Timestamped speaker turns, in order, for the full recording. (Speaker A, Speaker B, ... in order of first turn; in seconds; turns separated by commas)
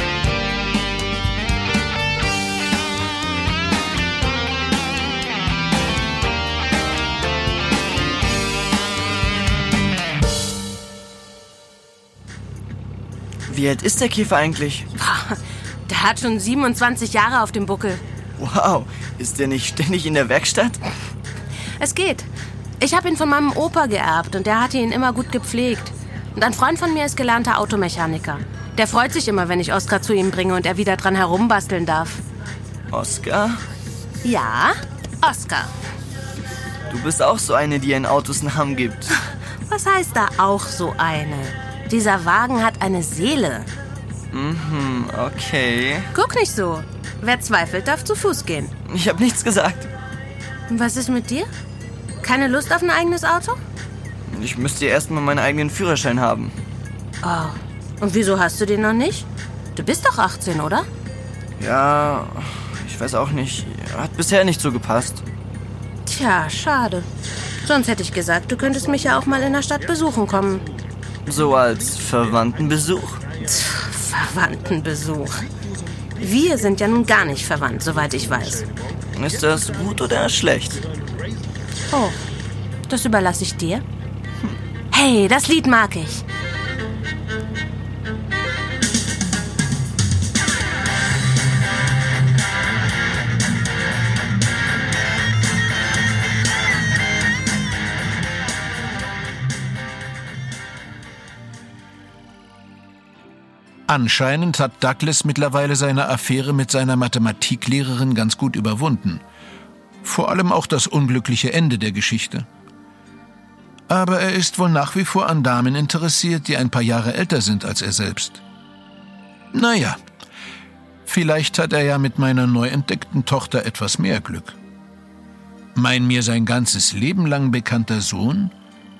Speaker A: 13.5-14.8, Speaker B: 14.9-15.4, Speaker B: 15.9-18.0, Speaker A: 18.4-20.8, Speaker B: 21.8-22.3, Speaker B: 22.8-32.2, Speaker A: 32.9-33.6, Speaker B: 34.2-35.7, Speaker A: 36.9-39.1, Speaker B: 39.7-43.7, Speaker A: 44.3-46.1, Speaker B: 46.1-48.7, Speaker A: 48.9-49.9, Speaker B: 50.7-51.5, Speaker B: 52.2-53.6, Speaker A: 54.3-56.5, Speaker B: 57.2-60.9, Speaker A: 61.6-65.2, Speaker B: 66.0-67.0, Speaker B: 67.6-70.6, Speaker A: 71.2-73.2, Speaker B: 73.5-75.4, Speaker B: 76.2-78.6, Speaker A: 79.2-80.8, Speaker B: 82.9-83.8, Speaker B: 84.9-86.2, Speaker C: 103.9-109.2, Speaker C: 110.0-112.5, Speaker C: 113.9-118.4, Speaker C: 119.5-120.0, Speaker C: 121.1-124.5, Speaker C: 125.7-128.5